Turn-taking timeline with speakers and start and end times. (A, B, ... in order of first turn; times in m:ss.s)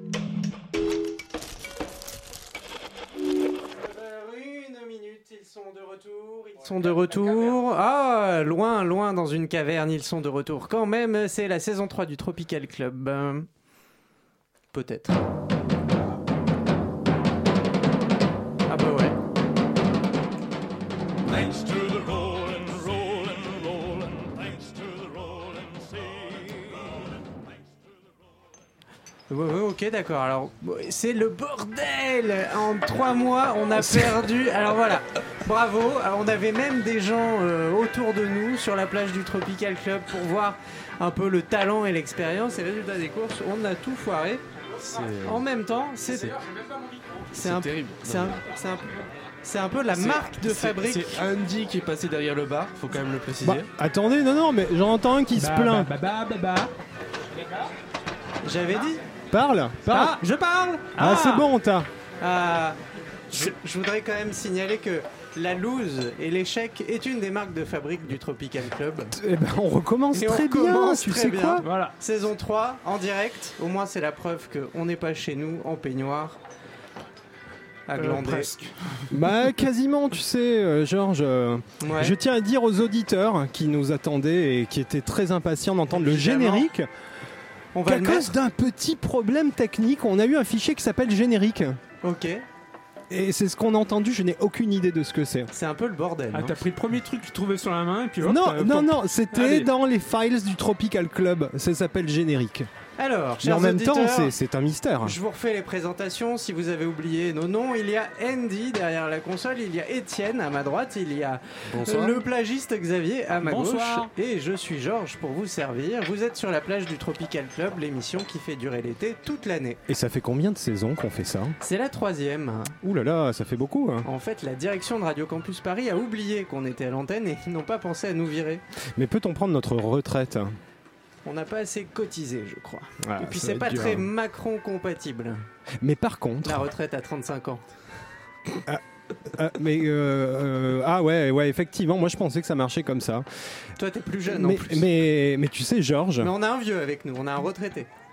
0:03.7-0:13.5 A
0:14.7-0:15.2 A
0:18.7-0:19.2 A
0:21.2-0:27.1 B
0:27.8-0:28.1 B
0:29.3-0:44.4 A
0:33.8-0:34.1 C
0:44.8-0:45.4 D
0:45.2-0:46.4 A
0:47.3-0:51.2 A
0:47.3-0:48.4 D
0:49.9-0:53.7 D
0:53.4-0:55.9 C
0:55.3-0:56.7 E
0:58.4-0:59.0 A
0:59.3-1:00.2 C
0:59.9-1:01.5 E
1:00.4-1:00.8 A
1:00.9-1:01.9 C
1:02.2-1:02.8 A
1:03.3-1:09.2 A
1:09.1-1:11.6 C
1:10.1-1:16.4 A
1:11.6-1:11.9 E
1:17.9-1:18.5 A
1:18.0-1:19.2 E
1:19.1-1:26.9 C
1:21.8-1:22.1 A
1:25.9-1:26.7 A
1:27.7-1:28.3 A
1:27.8-1:31.8 C
1:32.0-1:32.4 A
1:33.1-1:35.5 C
1:35.5-1:36.6 A
1:36.3-1:39.7 E
1:38.2-1:42.7 C
1:43.0-1:44.3 A
1:43.4-1:45.2 C
1:45.0-1:59.8 A
1:51.7-1:52.2 D
1:53.4-1:54.1 E
1:59.9-2:01.6 C
2:01.6-2:02.8 A
2:02.8-2:04.1 C
2:04.0-2:08.6 A
2:08.9-2:10.6 C
2:11.2-2:15.4 A
2:13.0-2:14.1 C
2:15.8-2:16.6 C
2:16.4-2:17.6 A
2:18.6-2:23.2 C
2:23.8-2:24.8 A
2:24.3-2:26.3 C
2:26.2-2:27.9 A